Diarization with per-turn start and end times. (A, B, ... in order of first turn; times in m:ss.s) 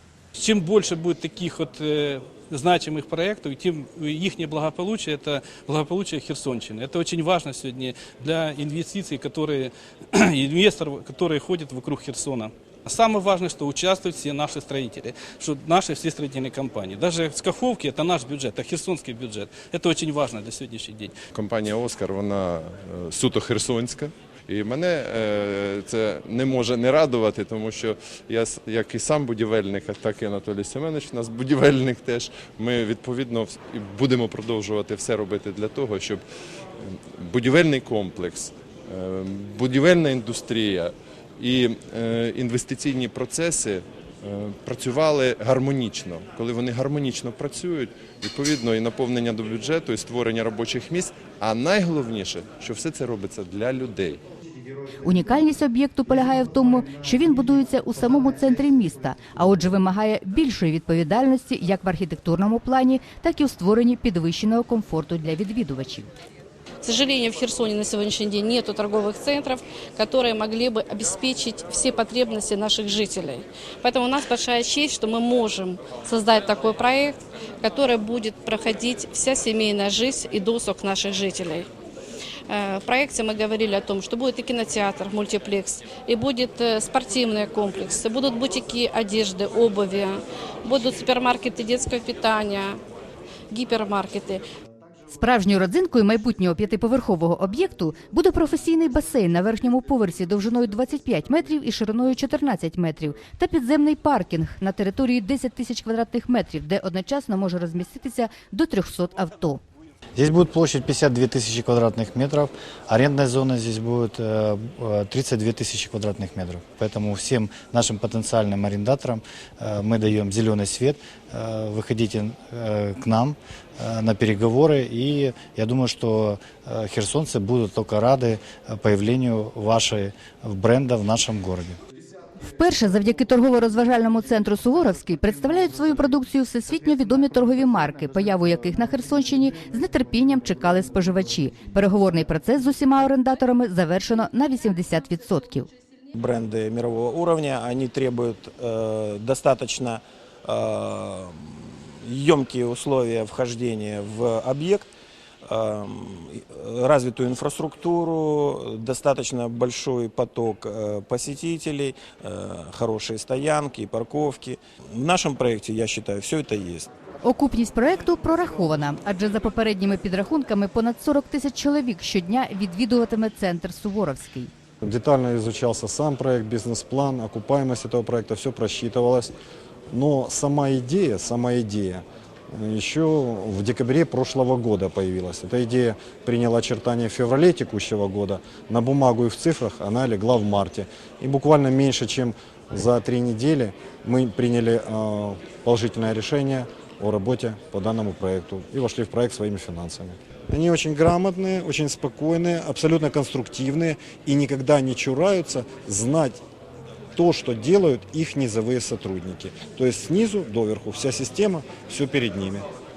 0:00.4-0:21.2 A
0:21.3-0:36.2 B
0:36.8-0:54.2 B
0:55.0-1:06.1 C
1:06.8-1:21.7 D
1:22.5-1:32.8 D
1:33.5-1:34.4 D
1:35.1-1:49.6 C
1:50.2-2:11.8 E
2:12.4-2:25.7 C
2:26.1-2:34.9 F
2:35.5-2:46.9 F
2:47.2-2:54.5 C
2:54.8-2:59.3 G
2:59.9-3:26.4 G
3:27.2-3:32.7 G